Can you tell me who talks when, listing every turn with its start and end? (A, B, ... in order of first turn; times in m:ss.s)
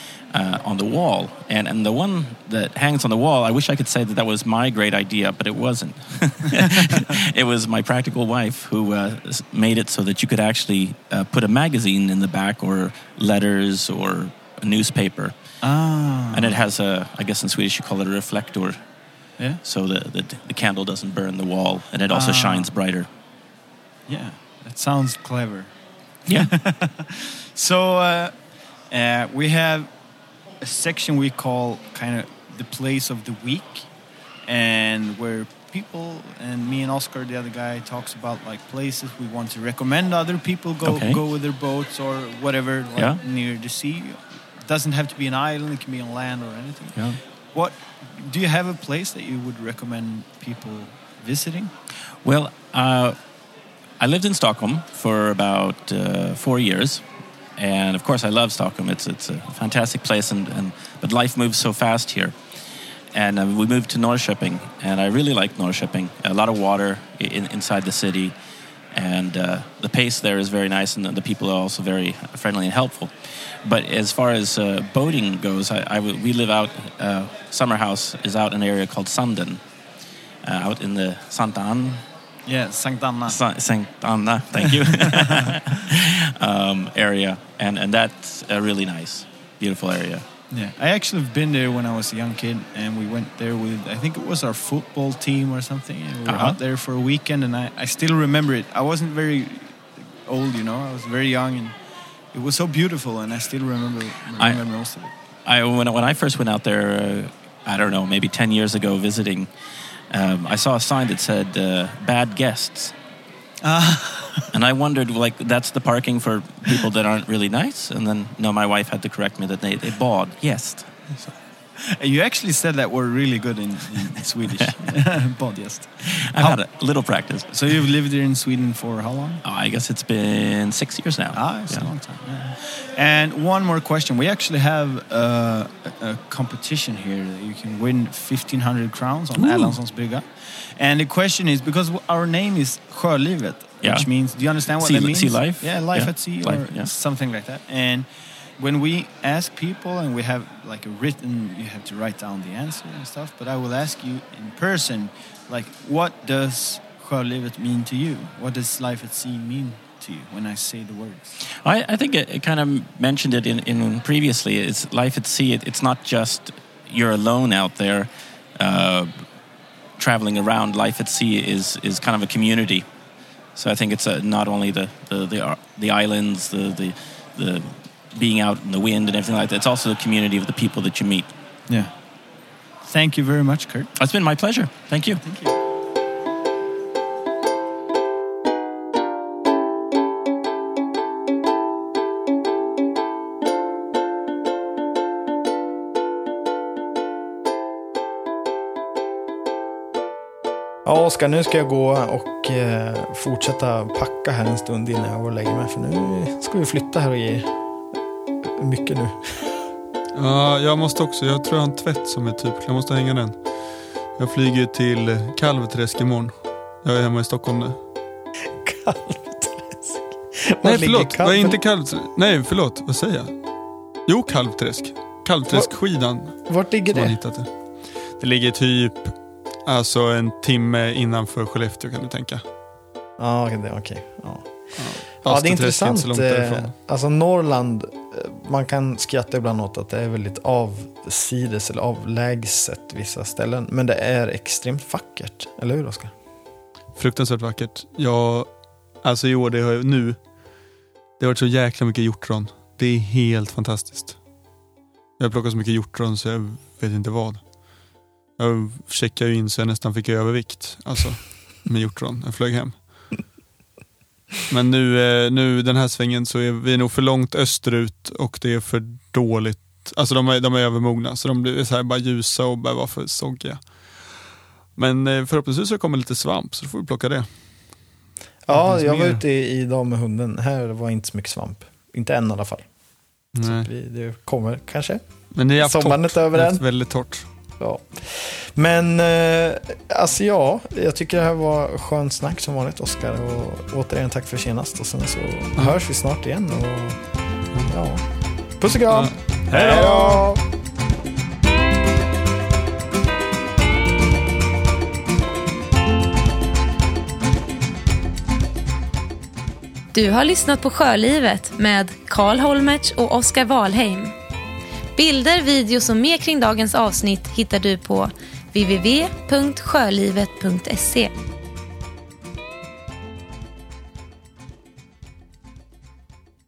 0:00.3-0:15.4 A
0:15.6-0:16.6 B
0:16.3-0:18.8 A
0:19.6-0:23.1 A
0:22.1-0:22.7 B
0:24.1-0:25.7 B
0:26.3-0:28.3 B
0:28.9-0:29.9 B
0:30.6-0:33.9 B
0:34.5-0:51.7 B
0:40.8-0:41.2 A
0:52.2-0:53.2 A
0:54.0-0:57.0 A
0:57.6-1:02.4 A
1:03.1-1:08.3 A
1:08.9-1:13.1 A
1:13.6-1:19.6 A
1:20.4-1:22.0 A
1:22.5-1:23.4 B
1:23.3-1:30.2 A
1:24.7-1:25.8 B
1:30.5-1:41.8 B
1:36.3-1:36.6 A
1:42.3-1:45.1 B
1:44.4-1:44.6 A
1:45.5-1:49.5 A
1:50.1-1:52.9 A
1:53.6-1:54.5 B
1:54.5-2:01.3 A
2:01.8-2:06.6 B
2:06.1-2:07.7 A
2:07.5-2:09.4 B
2:09.4-2:11.9 A
2:11.4-2:41.4 B
2:19.4-2:19.8 A
2:23.8-2:26.9 A
2:41.6-2:49.1 A
2:50.0-2:52.9 A
2:53.6-3:01.3 A
3:02.8-3:03.9 B
3:04.0-3:05.2 A
3:05.2-3:05.6 B
3:20.8-3:27.5 C
3:28.5-3:29.4 C
3:30.2-3:33.4 D
3:34.2-3:37.8 D
3:38.6-3:41.6 C
3:40.6-3:43.3 D
3:44.1-3:47.5 D
3:46.4-3:47.2 C
3:48.2-3:49.2 D
3:49.7-3:52.4 D
3:53.2-3:54.5 C
3:54.8-3:56.7 D
3:55.2-4:06.1 C
4:07.0-4:08.5 D
4:09.0-4:10.2 D
4:11.2-4:14.2 D
4:15.2-4:17.4 D
4:18.4-4:22.7 D
4:24.5-4:33.6 D
4:34.8-4:37.3 D
4:38.5-4:42.6 C
4:38.5-4:39.2 D
4:43.4-4:43.7 D
4:43.4-4:45.0 C
4:45.4-4:47.3 D
4:45.6-4:46.6 C
4:47.6-4:57.0 C
4:57.7-4:58.0 C
4:58.6-5:00.4 C
4:58.9-5:00.3 D
5:09.9-5:14.1 E
5:15.0-5:21.1 E